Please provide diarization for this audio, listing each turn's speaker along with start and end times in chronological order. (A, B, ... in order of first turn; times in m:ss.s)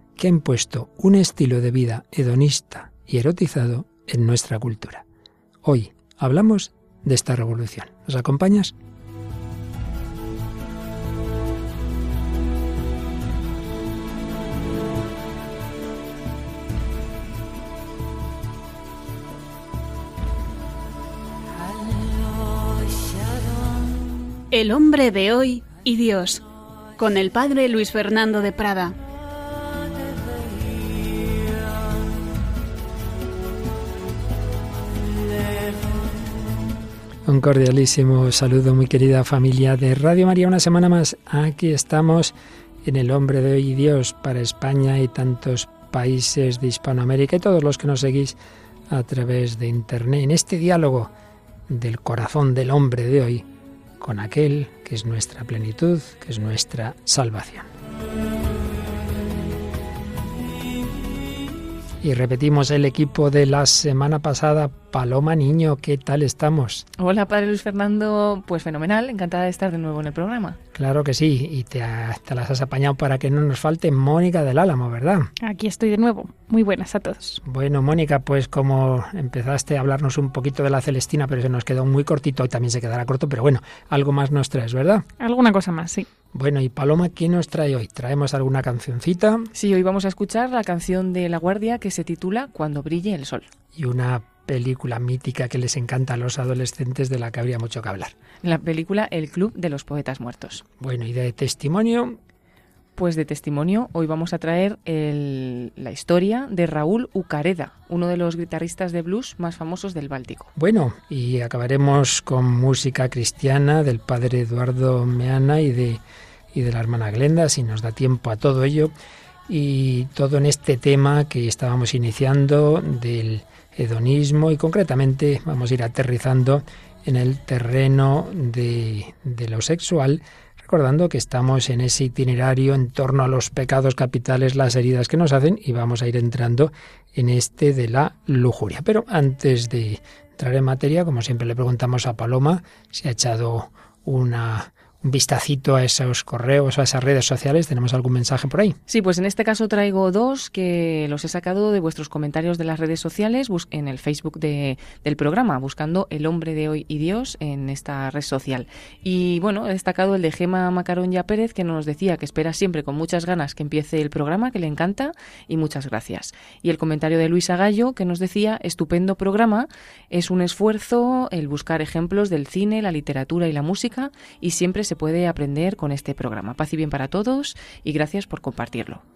0:00.2-0:05.0 A
0:05.6-0:08.7 A
0:24.5-0:26.4 B
0:27.0-0:29.0 B
0:37.3-0:48.4 A
0:48.9-0:51.1 A
0:51.7-0:53.4 A
0:54.0-0:57.7 A
1:02.0-1:06.9 A
1:07.0-1:10.6 C
1:10.8-1:15.3 A
1:15.4-1:17.4 D
1:17.4-1:25.1 A
1:25.2-1:26.1 D
1:26.3-1:29.5 A
1:29.5-1:33.5 C
1:33.8-1:38.1 A
1:38.4-1:40.6 C
1:40.8-1:42.2 A
1:43.0-1:50.5 C
1:50.6-1:56.0 A
1:56.5-1:58.9 A
1:59.5-2:28.8 A
2:28.9-2:59.0 C